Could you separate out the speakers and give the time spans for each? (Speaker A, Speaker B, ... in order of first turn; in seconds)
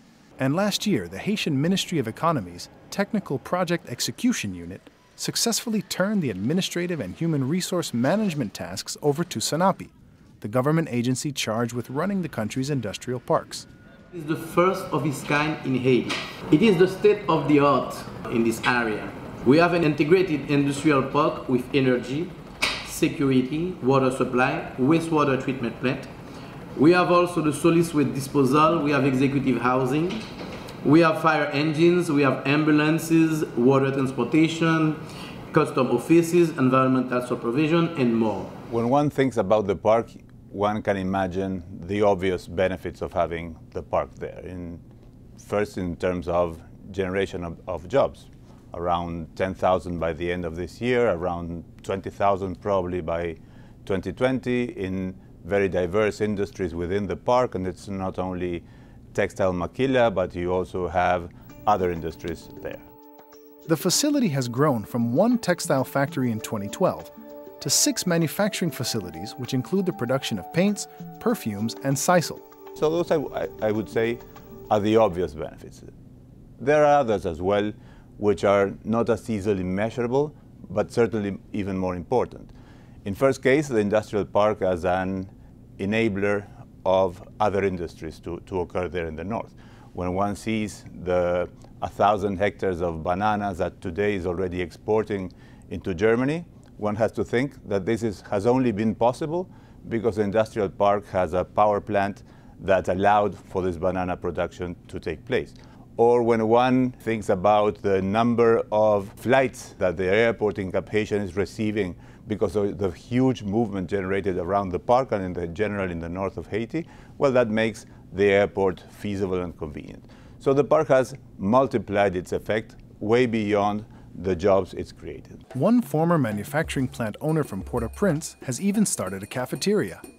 Speaker A: 0.4-13.7, 63.7-72.4, 125.5-130.0
Speaker B: 14.1-26.1, 26.7-30.3, 30.8-38.5
Speaker C: 38.7-44.8, 45.4-62.8, 72.8-75.9, 76.6-82.5, 83.0-125.4